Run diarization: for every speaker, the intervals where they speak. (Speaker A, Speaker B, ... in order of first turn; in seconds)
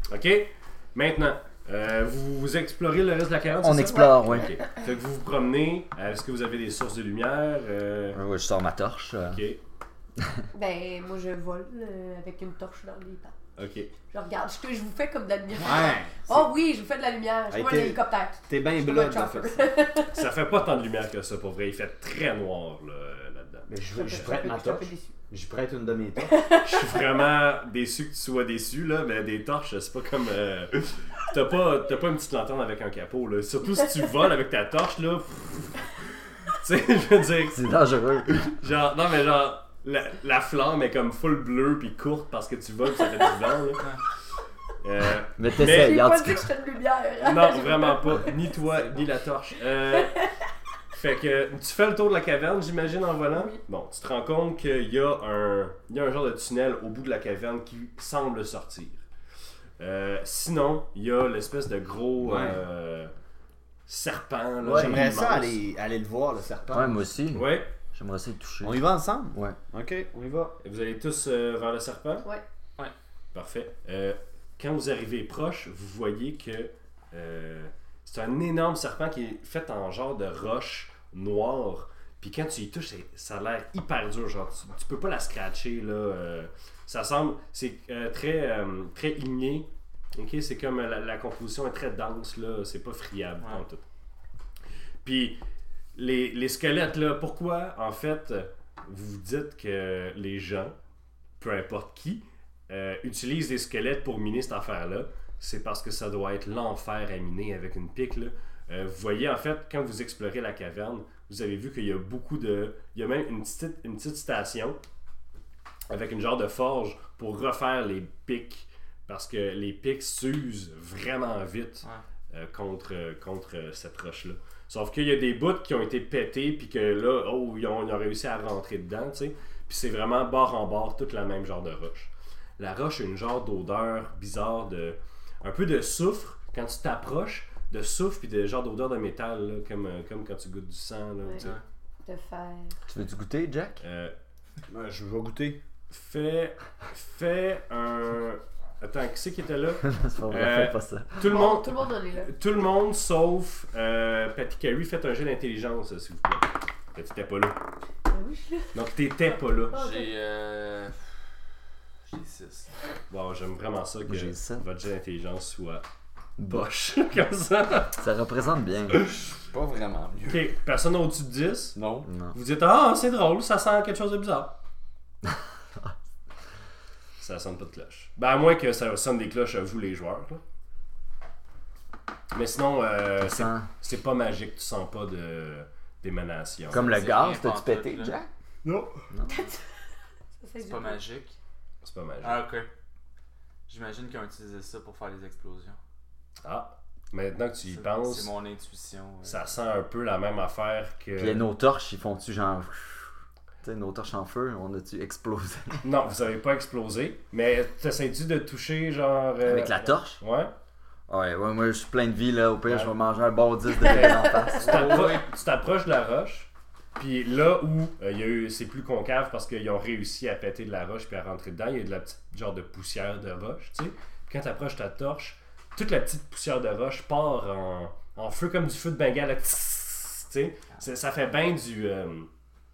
Speaker A: 0.1-8.2, 9.3-9.6, 13.6-13.9, 20.1-24.4, 26.6-43.9, 44.8-46.1, 47.2-50.2, 50.9-59.0, 59.8-63.1, 63.9-65.6, 67.3-67.7, 70.6-72.3, 73.3-93.8, 95.0-95.4, 96.0-100.7, 101.4-114.8, 115.9-141.6, 143.8-144.2, 145.9-157.6, 158.7-159.8, 163.1-165.8, 166.4-168.0, 168.9-169.3, 170.2-174.6, 177.2-180.4, 182.3-186.9, 191.8-192.5, 196.4-198.3, 199.2-201.5, 205.8-210.5, 212.7-212.9, 213.8-232.3
Speaker B: 3.6-4.5, 8.1-9.4, 37.5-38.5, 45.4-46.4, 64.7-65.0, 66.7-69.6, 142.9-143.8, 149.8-151.3, 164.1-164.6, 166.4-166.7, 167.9-169.0, 172.1-172.3, 183.2-183.7, 186.7-188.3, 189.1-189.4, 201.2-205.9, 209.4-210.2, 211.1-214.9
Speaker C: 10.5-13.3, 14.1-20.3, 23.9-25.1, 26.2-27.0, 45.5-48.5, 50.0-50.3, 53.3-53.6, 142.1-142.8, 151.2-152.3, 158.1-158.8, 159.7-160.1, 189.3-189.6, 190.4-191.0, 213.8-214.7
Speaker D: 15.6-16.4, 17.5-19.7, 23.7-26.5, 62.2-62.6, 64.6-67.1, 68.6-70.5, 144.7-145.6, 169.4-170.5, 171.8-172.1, 188.6-189.0
Speaker E: 159.7-161.1, 162.1-162.8, 186.7-188.2, 190.6-191.4, 192.2-192.7, 193.7-195.8, 197.7-199.6, 214.6-215.3